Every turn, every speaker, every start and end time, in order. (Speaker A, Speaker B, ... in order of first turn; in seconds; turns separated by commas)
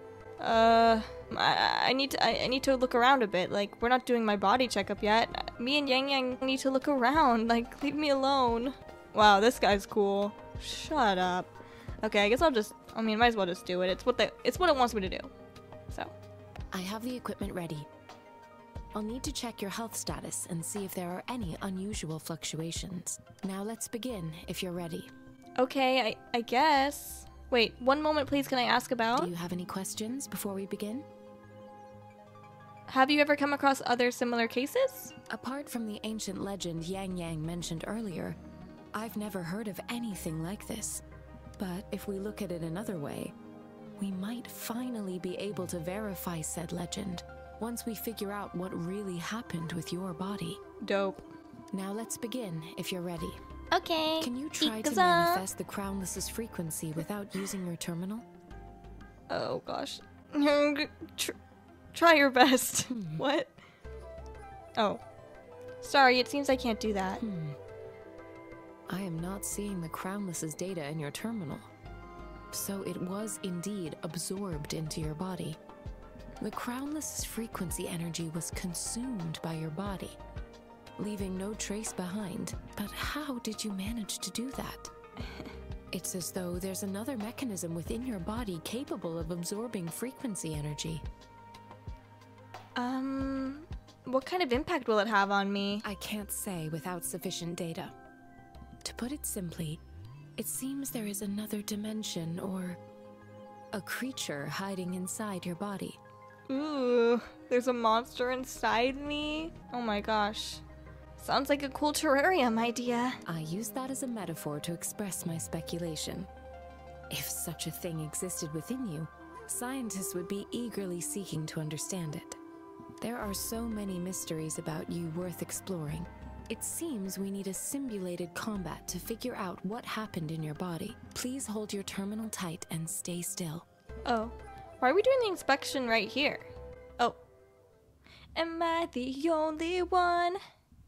Speaker A: 0.4-11.5, Speaker A: 12.0-15.3, Speaker B: 16.7-17.9, Speaker B: 18.9-25.1, Speaker A: 25.6-29.3, Speaker B: 29.1-31.1, Speaker A: 32.9-35.1, Speaker B: 35.3-38.4, Speaker B: 38.9-41.0, Speaker B: 41.6-43.3, Speaker B: 44.0-50.6, Speaker A: 50.8-51.3, Speaker B: 51.7-53.4, Speaker A: 53.7-55.4, Speaker B: 54.2-58.2, Speaker A: 59.3-61.3, Speaker A: 61.9-63.5, Speaker B: 62.9-63.2, Speaker A: 65.8-67.2, Speaker B: 67.2-67.6, Speaker B: 68.9-71.7, Speaker B: 72.5-75.6, Speaker B: 76.4-80.2, Speaker B: 81.0-84.9, Speaker B: 85.9-91.0, Speaker A: 92.8-95.8, Speaker B: 95.8-97.9, Speaker B: 98.8-99.8, Speaker B: 100.4-102.8, Speaker B: 103.7-106.0, Speaker A: 106.5-110.6, Speaker A: 111.2-113.2, Speaker B: 113.2-116.3, Speaker B: 117.1-122.4, Speaker B: 123.0-133.7, Speaker A: 134.0-136.5, Speaker A: 138.3-140.4